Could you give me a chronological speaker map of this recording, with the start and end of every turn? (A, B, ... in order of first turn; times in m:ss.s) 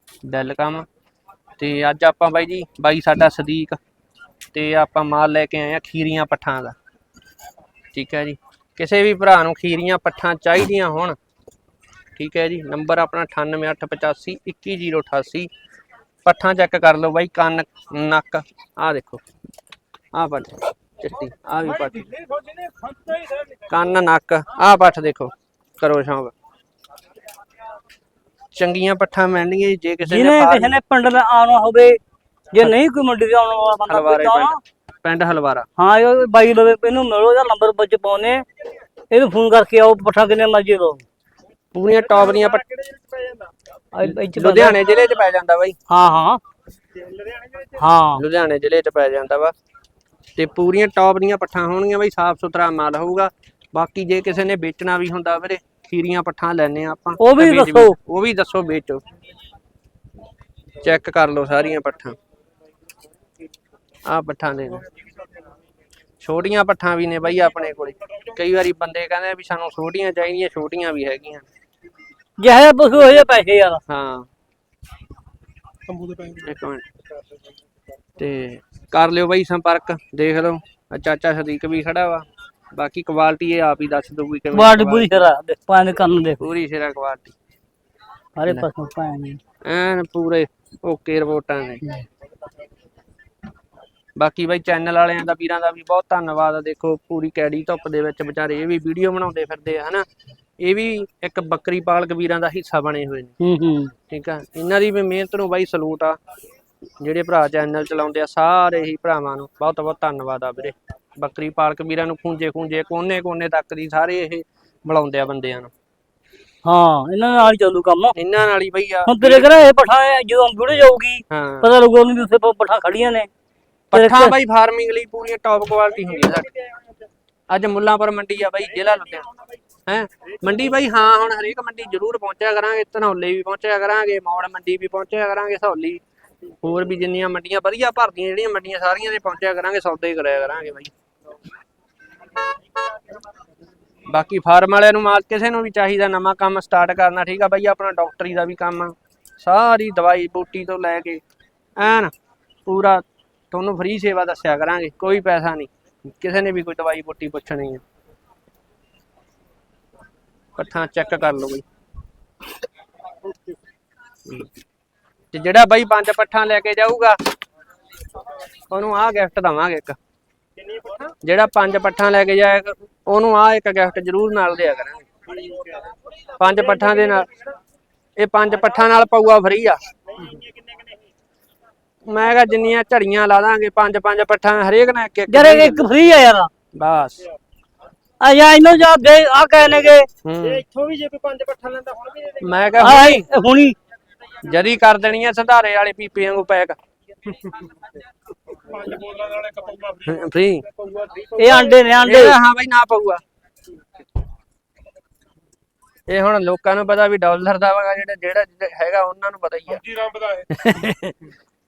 0:00.2-0:00.9 A
0:01.6-0:03.8 A
0:04.5-0:06.8 A
0:07.9-0:11.2 A
0:12.2-0:15.5 A
0:16.2-0:19.2 A
0:20.1-0:22.2 A
0:22.6-0:23.2 B
0:23.7-0:26.3 A
0:28.6-0:30.8 A
0:30.1-0:32.0 C
0:32.5-0:34.6 C
0:33.9-0:34.5 A
0:35.0-0:35.7 A
0:35.8-0:38.4 C
0:39.1-0:41.0 C
0:41.7-0:42.7 A
0:42.9-0:43.5 B
0:43.9-0:45.0 C
0:44.1-0:45.8 A
0:45.9-0:46.4 C
0:47.1-0:47.7 B
0:47.8-0:48.2 C
0:48.2-0:49.5 A
0:50.4-0:59.0 A
0:57.2-0:58.0 C
1:00.8-1:02.2 A
1:04.1-1:04.9 A
1:06.2-1:11.5 A
1:12.4-1:13.8 C
1:13.9-1:14.3 A
1:15.9-1:16.4 B
1:16.4-1:16.9 A
1:18.2-1:25.2 A
1:24.5-1:26.4 C
1:26.4-1:27.3 A
1:28.4-1:29.4 C
1:29.6-1:31.8 A
1:34.2-1:40.0 A
1:40.6-1:43.4 A
1:43.4-1:43.9 C
1:44.1-1:46.2 A
1:47.0-1:55.7 A
1:56.6-1:58.2 C
1:58.2-1:59.6 A
1:59.1-2:03.3 C
2:01.3-2:01.7 A
2:03.9-2:06.5 A
2:03.9-2:04.4 C
2:07.5-2:09.3 A
2:09.9-2:16.0 A
2:16.6-2:20.9 A
2:24.1-2:31.2 A
2:31.8-2:32.1 A
2:32.7-2:37.8 A
2:40.6-2:41.6 A
2:45.3-2:47.2 A
2:48.7-2:50.0 A
2:50.7-2:51.0 B
2:51.2-2:55.0 A
2:56.4-2:57.3 A
2:58.2-2:59.8 A
3:00.2-3:01.0 B
3:02.1-3:05.9 A
3:05.3-3:06.5 C
3:06.8-3:07.2 A
3:08.2-3:10.1 C
3:10.2-3:10.6 A
3:10.6-3:12.4 B
3:12.4-3:13.3 A
3:12.8-3:13.8 C
3:14.4-3:16.8 A
3:18.8-3:20.0 B
3:20.0-3:20.7 A
3:20.9-3:21.3 B
3:21.3-3:22.4 C
3:22.0-3:23.2 A
3:26.1-3:30.0 A
3:30.1-3:30.4 B
3:30.5-3:31.2 A